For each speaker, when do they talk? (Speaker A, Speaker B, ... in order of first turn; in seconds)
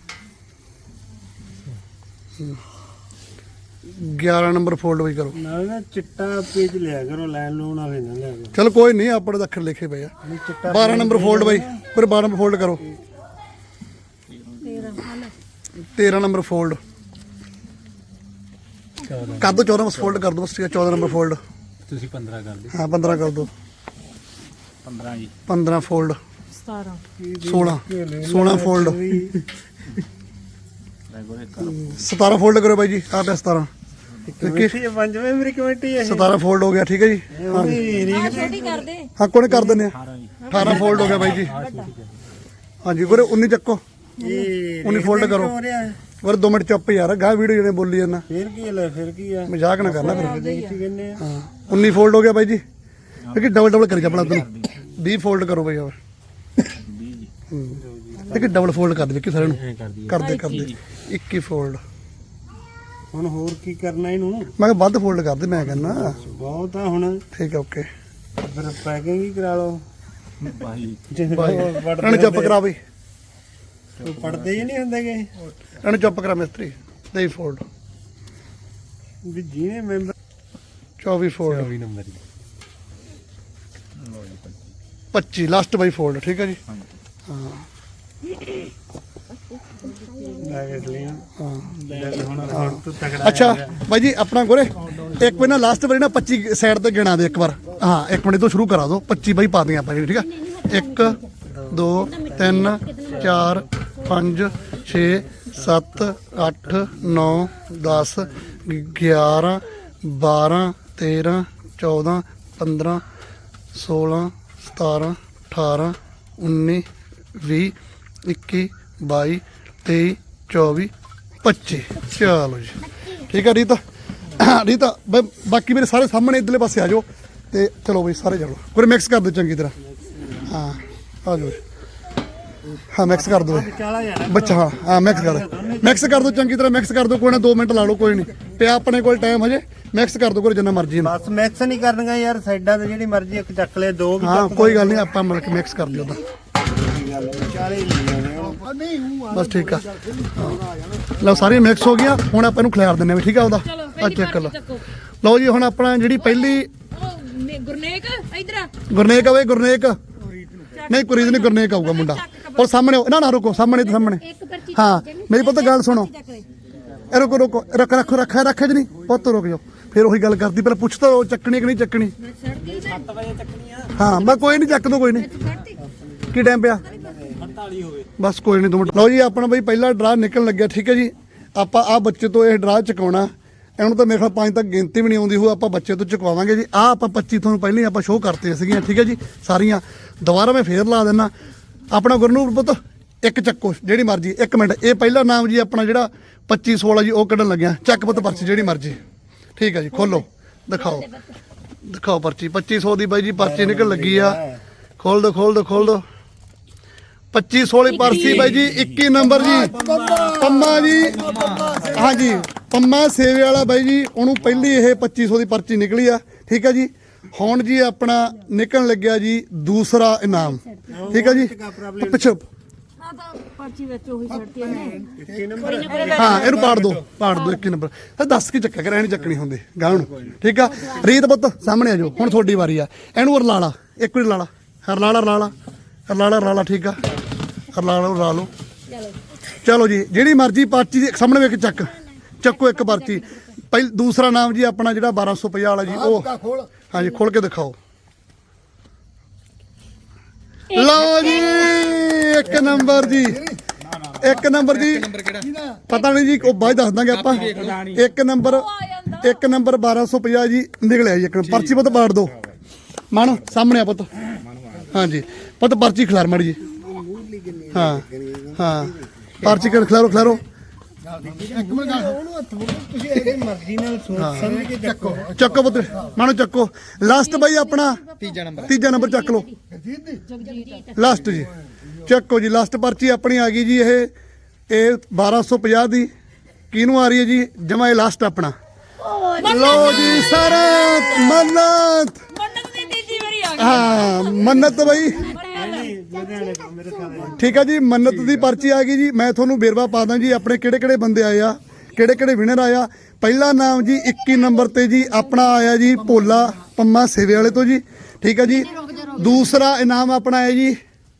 Speaker A: 3.9-5.4, 8.5-10.1, 10.7-12.8, 15.9-16.8, 19.4-21.4, 22.7-23.5, 25.5-26.2, 27.5-29.0, 31.6-33.7, 34.4-34.8, 36.0-37.9, 39.2-40.0, 40.5-41.5, 42.8-43.8, 44.8-45.5, 46.2-48.2, 49.5-50.4, 51.2-52.6, 53.3-56.0, 57.5-61.8, 64.6-66.2, 67.3-67.9, 71.3-72.8, 75.8-77.7, 81.0-81.7, 85.1-86.6, 87.3-87.7, 91.4-91.7, 92.5-113.0, 113.7-116.8, 117.4-120.9, 121.4-123.8, 124.3-129.8, 130.5-131.6, 132.9-133.7, 134.3-141.1, 144.2-146.2, 149.3-150.6, 151.2-154.6, 155.2-156.7, 158.9-160.0, 160.9-166.1, 167.1-172.1, 173.9-175.3, 176.3-176.9, 178.2-191.3, 191.9-199.0, 199.6-201.2, 201.8-204.4, 205.0-206.0, 207.3-222.4, 226.2-235.6, 236.1-237.0, 237.7-238.5, 239.6-247.8, 250.7-253.5, 254.1-255.2, 255.8-262.4, 263.1-264.1, 264.9-266.6, 267.7-268.1, 268.6-270.4, 274.2-274.6, 275.2-279.5, 280.9-284.1, 284.7-286.1, 286.7-288.5, 289.4-292.2, 293.5-295.3, 297.4-310.8
Speaker B: 5.3-8.6, 10.2-11.7, 27.2-29.4, 34.3-36.3, 37.3-38.9, 39.5-39.8, 44.2-46.0, 48.3-51.2, 57.9-58.5, 63.1-64.5, 65.8-67.2, 68.4-69.8, 71.1-72.6, 74.0-75.3, 79.2-80.1, 90.2-91.2, 91.8-93.8, 133.1-136.5, 141.0-145.1, 146.7-148.7, 176.9-177.5, 203.4-204.6, 211.1-212.1, 220.9-222.4, 224.9-226.8, 266.7-269.5, 271.2-275.5, 295.4-297.6
Speaker C: 14.6-15.3, 26.6-27.0, 38.1-39.1, 40.6-41.9, 50.0-50.8, 60.2-60.7, 153.7-154.8, 156.3-158.7, 160.7-162.7, 172.5-173.0, 175.2-175.8, 208.0-208.5, 223.0-225.1, 225.7-226.7, 258.4-259.3, 280.3-280.9, 289.2-291.4, 292.3-294.2, 295.1-295.9
Speaker D: 19.1-20.1, 21.9-22.7, 24.8-25.3, 31.1-32.0, 40.0-42.1, 53.3-54.7, 56.7-57.3, 59.4-60.7, 70.4-71.0, 74.1-74.4, 81.5-82.2, 172.7-174.1, 177.4-178.1, 211.3-211.7